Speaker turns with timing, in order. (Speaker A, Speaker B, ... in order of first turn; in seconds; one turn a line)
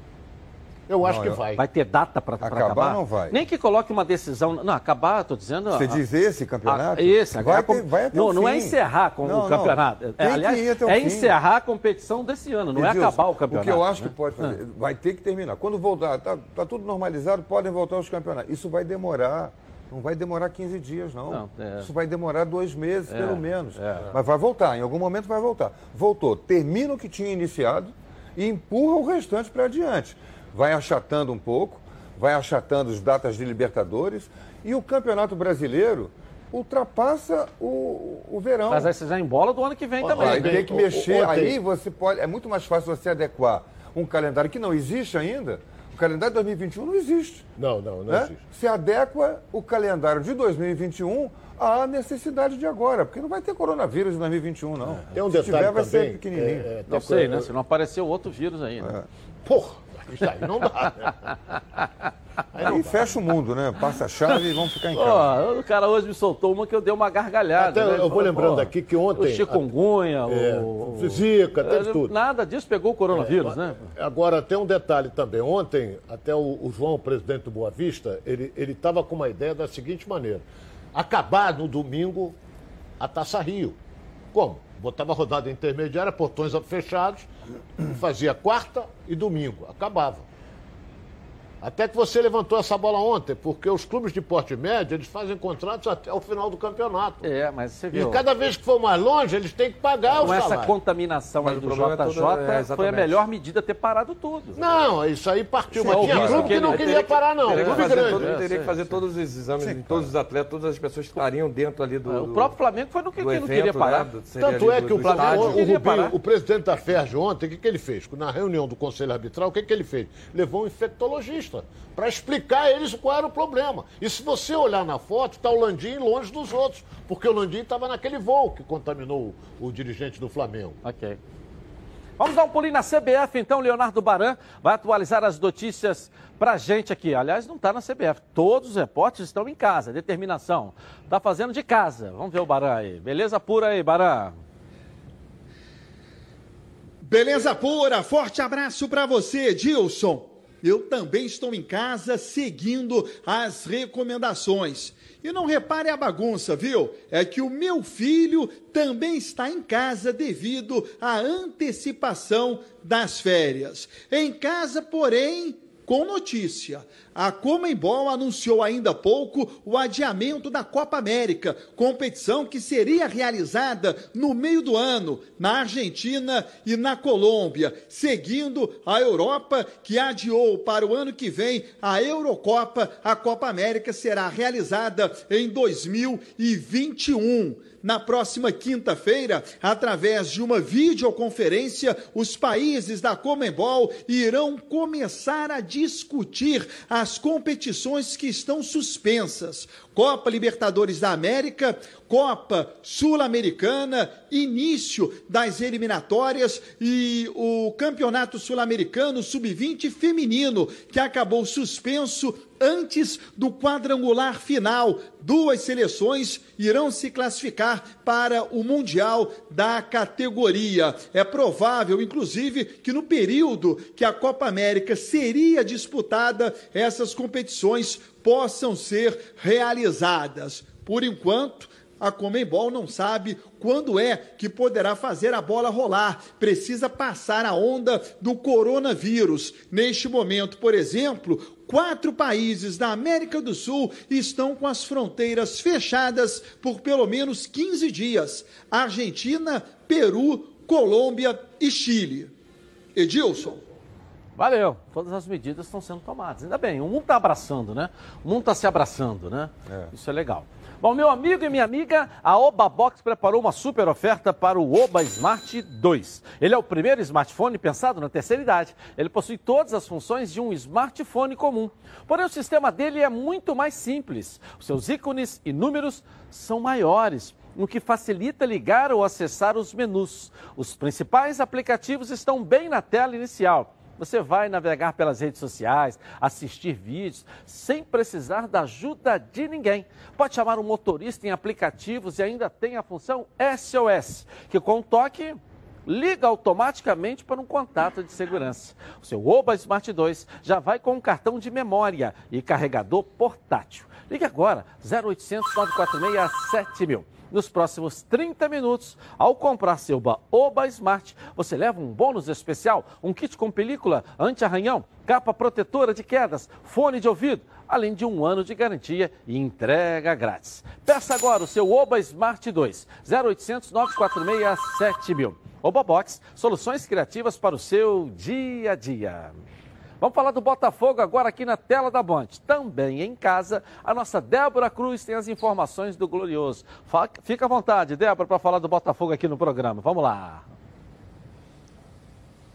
Speaker A: 0.9-1.6
Speaker B: 1.0-1.4
Speaker C: 1.6-6.0
Speaker B: 2.4-3.4
Speaker B: 5.7-11.3
Speaker C: 6.6-14.6
Speaker B: 12.7-38.9
Speaker C: 21.3-21.9
Speaker C: 23.1-24.1
Speaker C: 38.7-40.6
Speaker A: 40.0-41.5
Speaker B: 40.2-47.5
Speaker A: 47.6-48.4
Speaker B: 48.1-56.7
Speaker A: 55.1-57.5
Speaker C: 56.9-59.0
Speaker A: 59.4-61.3
Speaker A: 62.5-63.1
Speaker B: 62.6-65.3
Speaker C: 64.9-73.8
Speaker A: 67.6-69.7
Speaker A: 70.3-72.1
Speaker A: 73.1-82.3
Speaker A: 83.0-83.8
Speaker A: 84.3-87.3
Speaker A: 87.8-90.2
Speaker A: 91.6-97.2
Speaker C: 97.2-98.2
Speaker A: 97.9-100.7
Speaker C: 100.1-104.8
Speaker D: 101.4-103.2
Speaker A: 104.5-108.3
Speaker C: 105.7-109.0
Speaker D: 105.8-106.8
Speaker D: 107.4-112.5
Speaker B: 109.6-110.1
Speaker C: 112.1-114.1
Speaker D: 113.2-115.6
Speaker A: 114.4-130.8
Speaker C: 115.0-116.1
Speaker C: 130.8-131.2
Speaker C: 132.2-144.3
Speaker E: 147.0-252.3
Speaker E: 252.9-253.6
Speaker C: 254.4-329.4
Speaker C: 330.0-340.4